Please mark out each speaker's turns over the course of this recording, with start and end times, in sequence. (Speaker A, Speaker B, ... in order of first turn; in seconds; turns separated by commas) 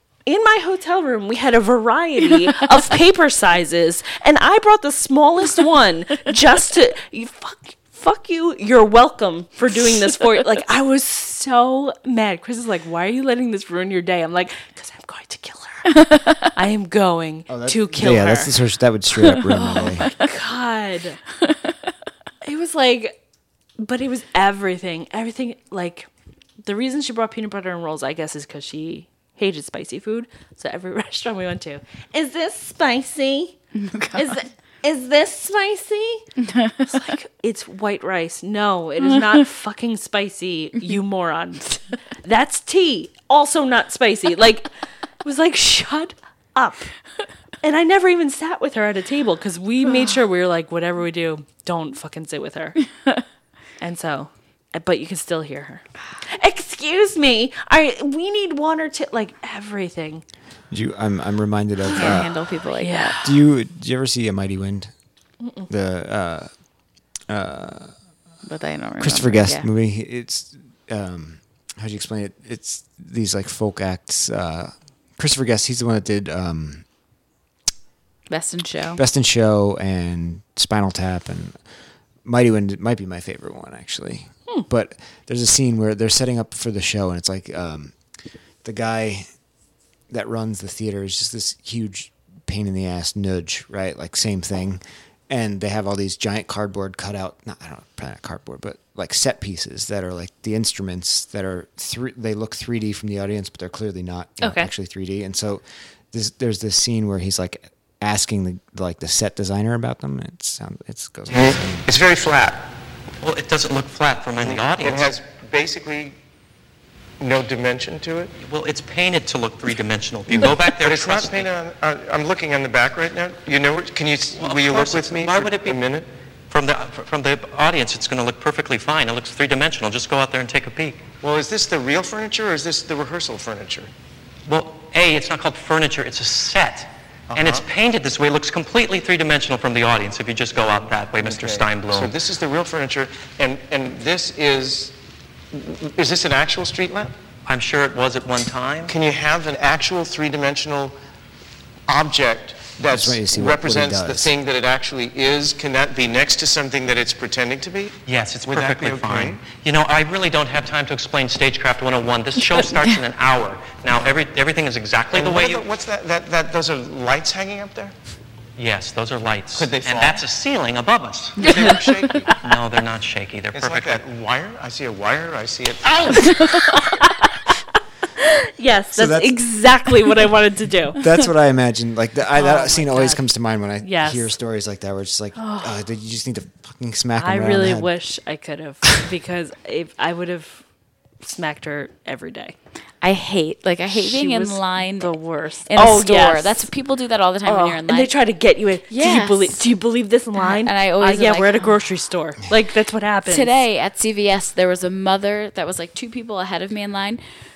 Speaker A: 0.2-18.6, Speaker B: 15.9-16.5, Speaker C: 17.5-20.1, Speaker A: 19.5-21.2, Speaker B: 19.6-20.1, Speaker A: 22.4-23.2, Speaker A: 23.8-26.1, Speaker A: 26.6-33.6, Speaker B: 33.7-34.4, Speaker A: 34.1-36.2, Speaker B: 36.4-37.1, Speaker A: 36.9-44.7, Speaker A: 45.2-46.9, Speaker A: 47.6-52.8, Speaker A: 53.8-60.2, Speaker C: 60.7-62.3, Speaker A: 61.9-62.2, Speaker B: 61.9-63.2, Speaker A: 62.8-63.4, Speaker C: 63.2-64.9, Speaker A: 65.4-65.7, Speaker C: 65.7-66.5, Speaker C: 67.3-67.9, Speaker B: 68.4-69.7, Speaker C: 69.0-76.8, Speaker B: 78.3-79.0, Speaker C: 79.0-81.5, Speaker C: 82.2-87.9, Speaker C: 88.6-89.2, Speaker C: 90.1-111.9, Speaker A: 104.4-104.7, Speaker D: 111.9-112.6, Speaker E: 113.2-115.1, Speaker D: 114.4-116.2, Speaker D: 117.2-118.3, Speaker E: 118.4-121.5, Speaker D: 120.3-126.1, Speaker E: 124.3-125.8, Speaker E: 126.5-131.0, Speaker D: 131.2-133.9, Speaker E: 134.4-142.2, Speaker D: 137.3-137.7, Speaker D: 141.2-145.0, Speaker D: 145.5-147.1, Speaker E: 147.4-148.9, Speaker D: 148.9-150.9, Speaker D: 151.9-159.4, Speaker C: 152.9-154.3, Speaker E: 158.0-165.6, Speaker D: 165.1-167.9, Speaker E: 168.6-174.0, Speaker D: 169.5-170.3, Speaker B: 171.4-172.1, Speaker D: 171.4-172.5, Speaker D: 173.5-176.5, Speaker B: 176.2-176.7, Speaker A: 176.5-177.5, Speaker A: 178.2-181.1, Speaker C: 178.9-179.4, Speaker C: 181.0-187.9, Speaker A: 182.3-184.4, Speaker A: 185.4-185.8, Speaker A: 187.2-190.6, Speaker A: 191.2-192.6, Speaker B: 193.0-195.1, Speaker A: 193.9-196.7, Speaker B: 195.7-198.1, Speaker A: 197.4-203.6, Speaker B: 198.9-199.6, Speaker B: 200.4-201.7, Speaker B: 203.3-207.2